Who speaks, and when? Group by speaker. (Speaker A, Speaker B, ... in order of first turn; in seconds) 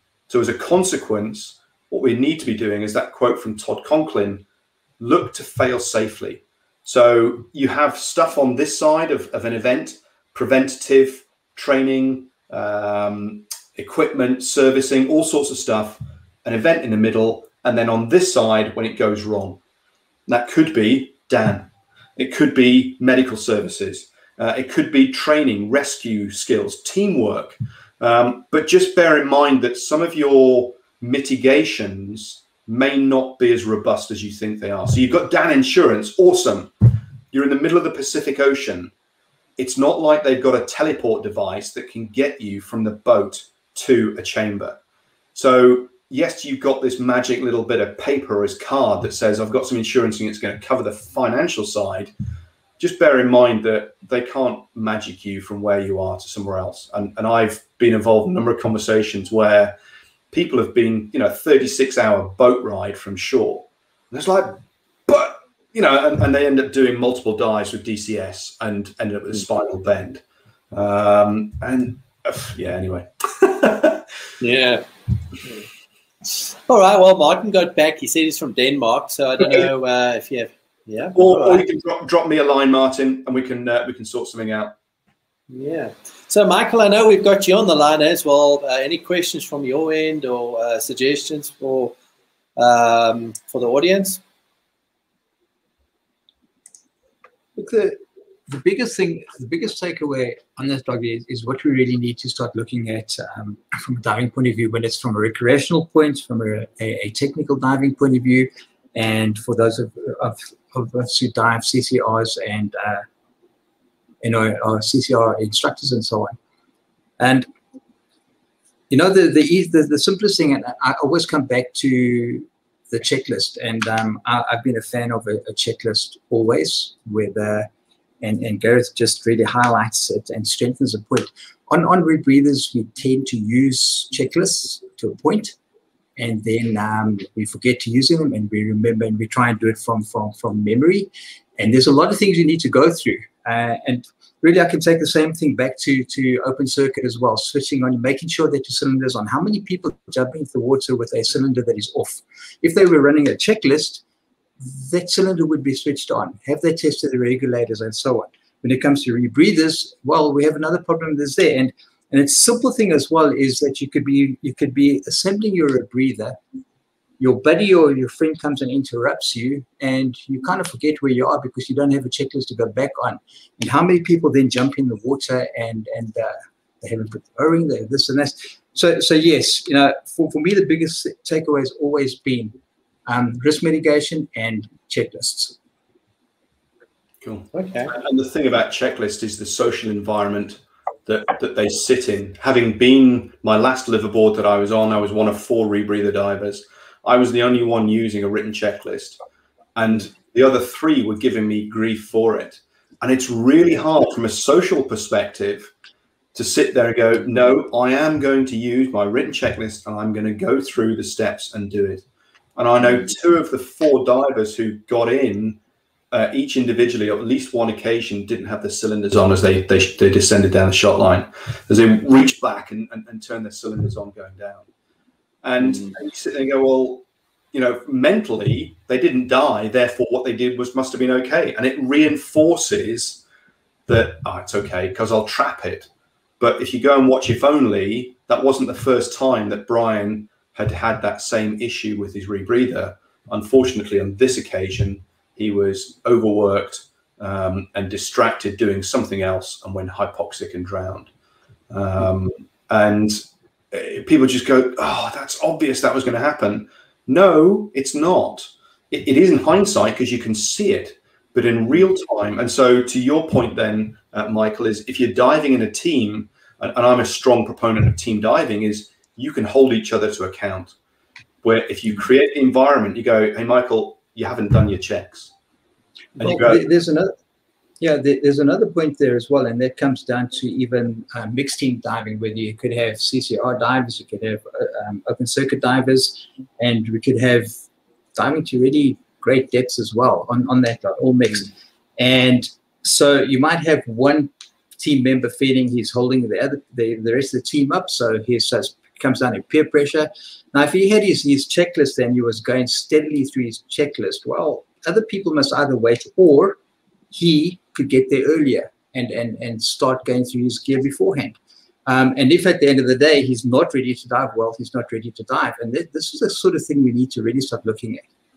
Speaker A: 0.3-4.5, 5.0-19.6, 20.3-36.7, 37.3-38.9, 39.6-44.8, 45.4-52.1, 52.8-59.8, 60.3-74.0, 79.4-79.7, 81.2-84.8, 187.2-199.2, 199.8-205.7, 206.3-212.1, 212.6-215.6, 216.1-224.7, 225.4-233.2, 233.9-235.9, 236.4-251.1, 251.7-270.8, 271.4-275.3, 276.2-276.6
Speaker B: 74.4-74.8, 76.2-81.7, 85.5-91.9, 92.6-94.2, 187.5-187.9, 225.6-226.0
Speaker C: 97.6-113.0, 114.2-116.3, 117.2-117.5, 118.9-127.7, 128.2-135.6, 136.2-154.0, 154.6-166.4, 167.2-182.5, 183.1-185.6, 276.2-277.1, 277.8-287.5, 288.1-306.6, 307.1-318.0